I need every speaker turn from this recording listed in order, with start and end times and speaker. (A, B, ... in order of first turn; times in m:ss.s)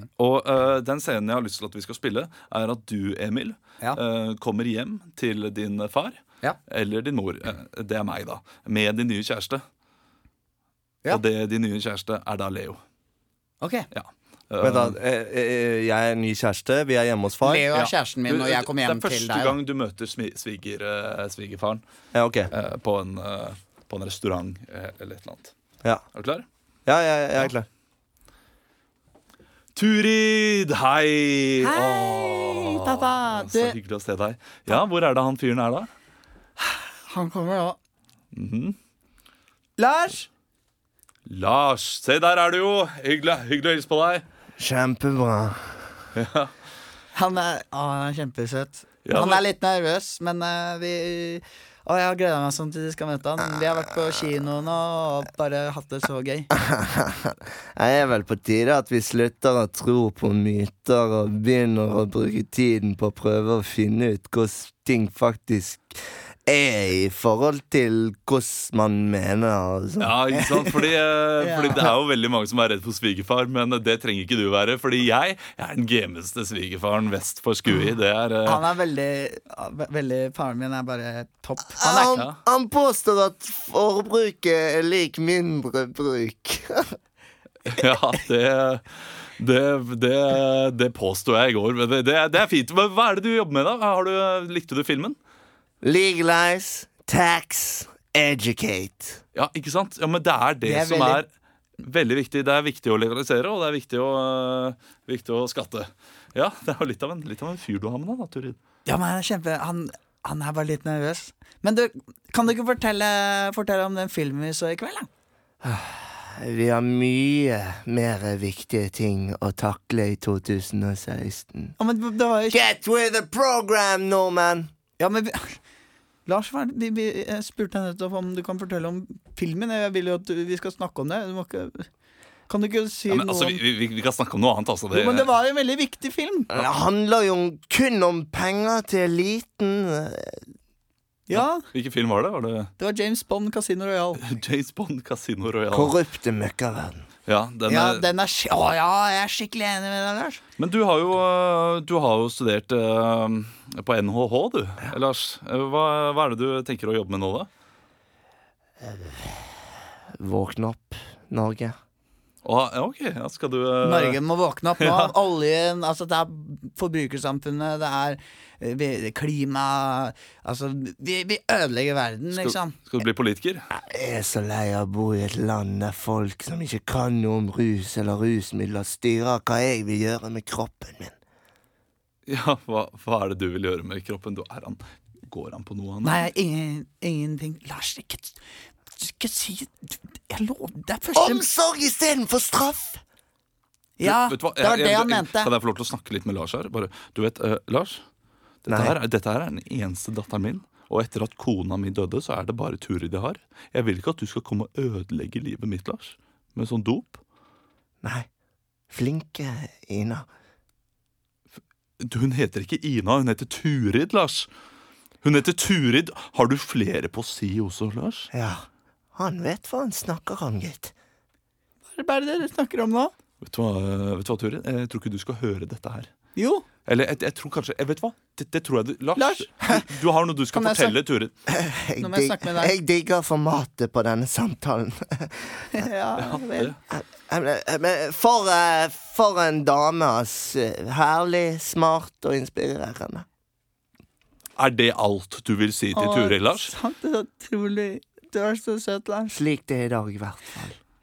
0:00.2-0:09.6 A
0:11.1-0:12.8 A
0:13.6-0:13.9 B
0:13.9-0:15.0 A
0:14.6-0:17.7 C
0:17.4-0:19.6 B
0:17.7-0:21.8 A
0:22.1-0:22.5 C
0:22.5-0:25.5 A
0:26.1-0:26.5 A
0:26.9-0:27.7 C
0:29.8-0:35.9 A
0:31.6-0:33.8 B
0:36.6-0:37.8 B
0:38.3-0:38.8 A
0:39.8-0:40.3 B
0:41.3-0:44.2 A
0:44.6-0:45.9 C
0:46.2-0:46.5 A
0:47.2-0:56.5 B
0:49.0-0:49.4 A
0:56.6-1:10.2 C
1:10.0-1:18.6 A
1:10.4-1:10.8 B
1:11.4-1:11.9 B
1:18.4-1:22.2 B
1:21.8-1:27.0 C
1:27.7-1:35.2 A
1:35.8-1:39.2 C
1:39.4-1:41.3 A
1:40.6-1:41.2 B
1:41.8-1:48.6 A
1:48.9-1:55.1 B
1:55.6-2:01.8 C
2:01.8-2:02.6 B
2:02.5-2:04.7 C
2:05.0-2:05.6 B
2:06.3-2:11.9 B
2:12.5-2:13.6 B
2:13.1-2:15.3 A
2:14.9-2:16.5 B
2:16.5-2:20.5 C
2:21.3-2:21.6 B
2:21.3-2:22.7 A
2:22.8-2:24.2 B
2:24.2-2:25.9 A
2:25.7-2:27.1 C
2:27.3-2:28.1 A
2:27.7-2:30.4 B
2:30.6-2:37.5 A
2:38.9-2:39.4 C
2:40.2-2:41.8 C
2:42.4-2:44.2 A
2:43.8-2:52.8 B
2:44.8-2:45.1 A
2:52.4-2:53.7 A
2:53.7-3:01.2 C
3:02.3-3:06.3 A
3:06.0-3:08.4 B
3:09.0-3:11.4 B
3:11.1-3:13.0 C
3:14.0-3:15.5 B
3:14.0-3:18.0 A
3:18.6-3:27.2 A
3:18.7-3:19.0 C
3:28.0-3:28.3 C
3:28.9-3:30.3 C
3:32.0-3:34.5 A
3:35.2-3:38.3 A
3:38.3-3:40.9 C
3:41.9-3:43.1 B
3:43.4-3:46.1 A
3:46.4-3:46.6 B
3:46.9-3:51.3 A
3:49.2-3:49.8 B
3:50.5-3:51.0 B
3:51.5-3:55.8 C
3:52.0-3:52.8 B
3:55.7-3:56.6 B
3:56.3-3:56.8 A
3:56.9-4:03.3 C
4:04.6-4:06.7 A
4:06.0-4:09.4 B
4:09.3-4:10.8 C